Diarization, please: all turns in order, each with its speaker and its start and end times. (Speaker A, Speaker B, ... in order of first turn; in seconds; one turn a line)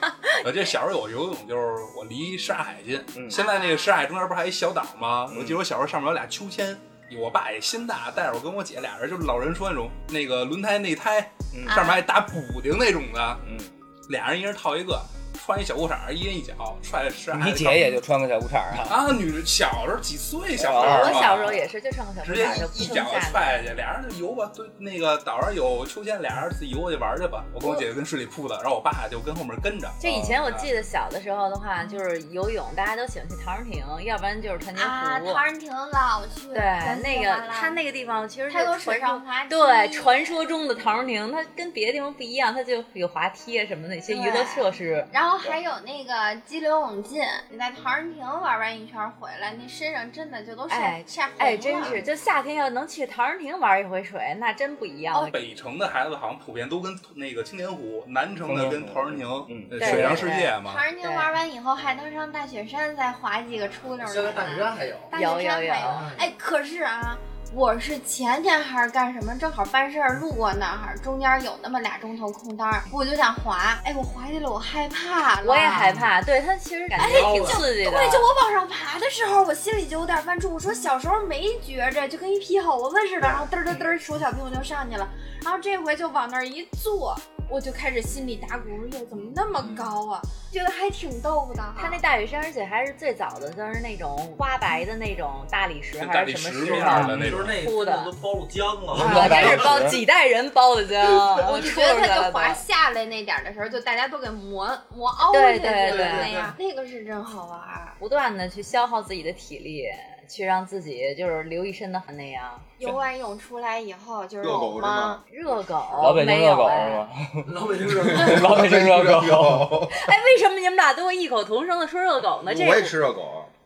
Speaker A: 0.4-13.4
Speaker B: 3.4-3.9
Speaker C: 5.3-5.6
Speaker C: 11.5-11.8
Speaker B: 11.7-12.0
Speaker C: 13.4-13.7
Speaker A: 14.1-17.9
Speaker C: 17.3-19.0
Speaker A: 18.8-21.6
Speaker C: 20.6-21.6
Speaker D: 20.7-23.7
Speaker A: 22.2-30.7
Speaker D: 30.0-35.4
Speaker C: 30.0-30.4
Speaker B: 34.8-37.8
Speaker D: 36.5-45.1
Speaker B: 38.5-40.4
Speaker B: 44.1-52.0
Speaker D: 50.7-55.3
Speaker C: 51.8-52.1
Speaker B: 55.1-55.4
Speaker A: 55.3-60.8
Speaker C: 58.5-60.2
Speaker D: 59.8-61.4
Speaker B: 59.9-76.1
Speaker E: 64.0-65.1
Speaker D: 65.1-66.1
Speaker E: 65.9-66.3
Speaker D: 75.4-78.3
Speaker B: 77.0-92.0
Speaker E: 77.0-77.7
Speaker D: 91.8-98.1
Speaker A: 96.0-97.6
Speaker E: 96.7-99.9
Speaker C: 96.9-97.2
Speaker C: 98.9-100.0
Speaker D: 98.9-102.6
Speaker B: 101.0-108.0
Speaker D: 105.3-106.5
Speaker E: 105.8-106.6
Speaker D: 108.0-112.7
Speaker B: 112.8-115.2
Speaker F: 114.4-115.2
Speaker D: 115.3-117.0
Speaker C: 116.0-119.7
Speaker E: 117.5-118.5
Speaker F: 117.9-120.0
Speaker D: 119.9-123.0
Speaker F: 122.4-123.5